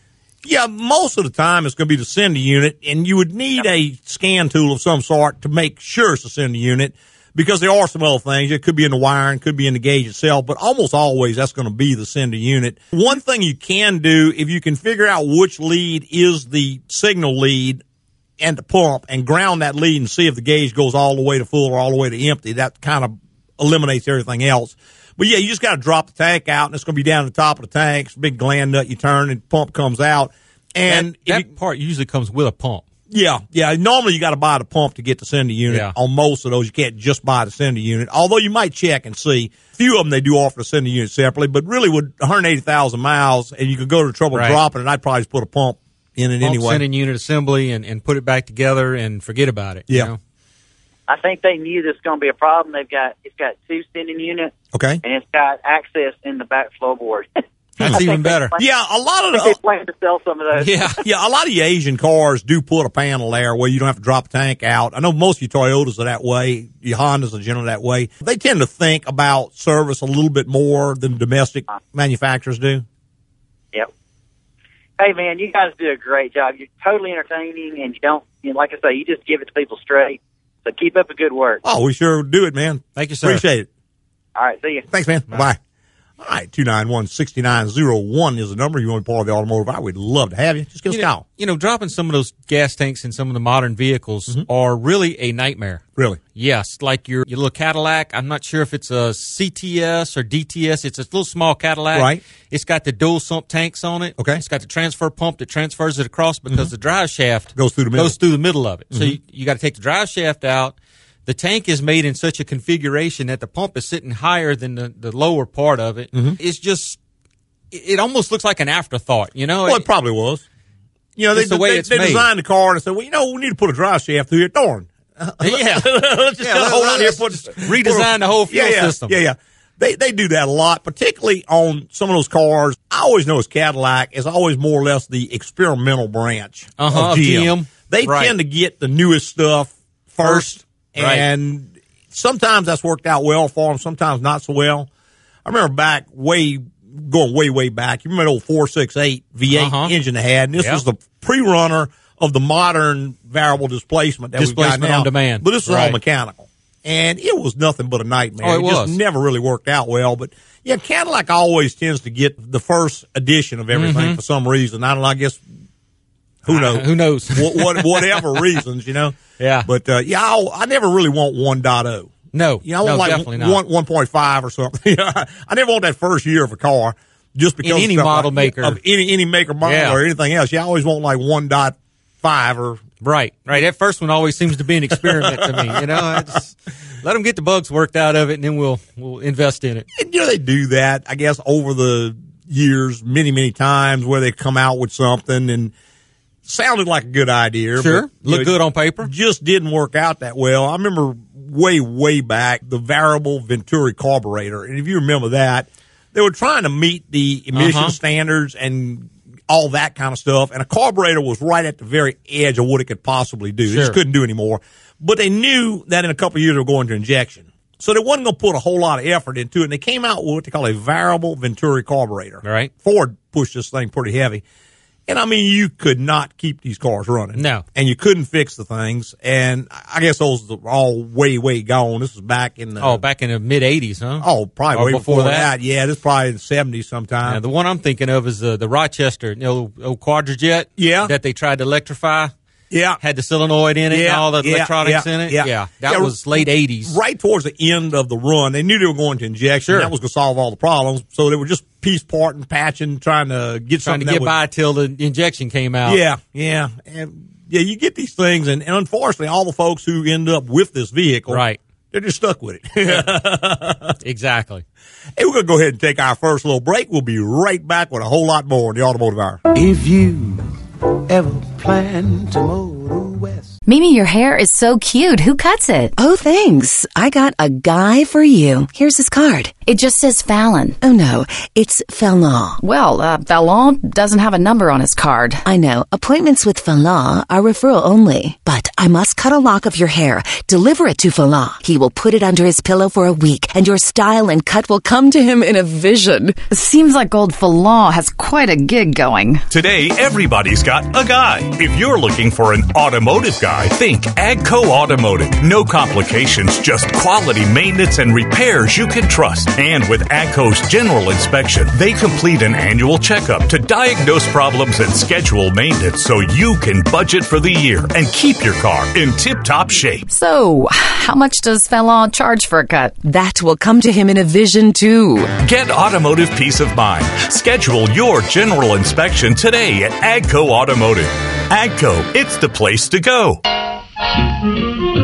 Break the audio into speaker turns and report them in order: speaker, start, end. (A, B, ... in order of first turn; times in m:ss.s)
0:00.4-0:17.8 A
0:18.4-0:31.5 A
0:30.9-0:32.8 B
0:33.1-0:46.8 A
0:35.7-0:35.9 B
0:44.3-0:44.6 B
0:46.4-0:50.2 B
0:51.1-0:58.6 C
0:54.7-0:55.0 A
0:57.8-0:58.5 B
0:58.6-0:59.6 A
0:59.3-1:00.8 C
1:00.6-1:01.0 B
1:01.0-1:12.8 A
1:15.0-1:21.6 C
1:21.6-1:23.7 A
1:23.0-1:23.4 B
1:24.3-1:24.8 C
1:24.9-1:25.6 A
1:26.2-1:31.2 A
1:30.9-1:35.8 B
1:36.3-1:50.7 B
1:41.9-1:42.2 A
1:44.2-1:44.4 A
1:47.5-1:48.2 A
1:48.9-1:49.2 A
1:51.2-1:57.0 B
1:56.1-1:56.4 A
1:57.7-1:59.8 B
1:59.6-2:00.4 A
2:01.2-2:24.9 A
2:01.3-2:02.3 B
2:05.4-2:09.2 B
2:16.8-2:18.3 B
2:20.2-2:21.2 B
2:25.4-2:45.4 A
2:29.5-2:29.9 B
2:30.6-2:30.8 B
2:34.4-2:36.0 B
2:38.4-2:39.0 B
2:43.7-2:44.2 B
2:46.4-3:02.8 A
2:46.5-2:48.4 B
2:49.4-2:49.7 B
2:52.3-2:53.6 B
2:57.6-2:58.8 B
2:59.6-3:00.0 B
3:03.0-3:09.9 B
3:04.9-3:06.3 A
3:10.0-3:15.7 A
3:16.4-3:44.4 A
3:17.8-3:19.1 B
3:27.5-3:28.0 B
3:33.7-3:34.0 B
3:42.4-3:42.7 B
3:45.1-3:53.0 A
3:47.4-3:47.6 B
3:52.8-3:55.5 B
3:54.2-3:57.4 A
3:57.2-4:02.3 B
4:00.8-4:01.1 A
4:02.7-4:03.0 A
4:03.0-4:06.9 B
4:03.9-4:14.3 A
4:09.7-4:09.9 B
4:13.8-4:16.0 B
4:15.8-4:23.9 A
4:21.3-4:21.6 B
4:24.0-4:24.6 B
4:25.2-4:29.4 A
4:29.5-4:30.5 D
4:31.1-4:33.5 D
4:33.6-4:35.9 E
4:36.0-4:39.6 F
4:39.6-4:40.8 E
4:40.8-4:42.6 F
4:42.6-4:45.4 E
4:45.4-4:56.4 F
4:56.5-4:59.4 E
4:59.5-5:20.0 G
5:20.1-5:23.0 E
5:23.0-5:25.3 F
5:25.4-5:33.4 G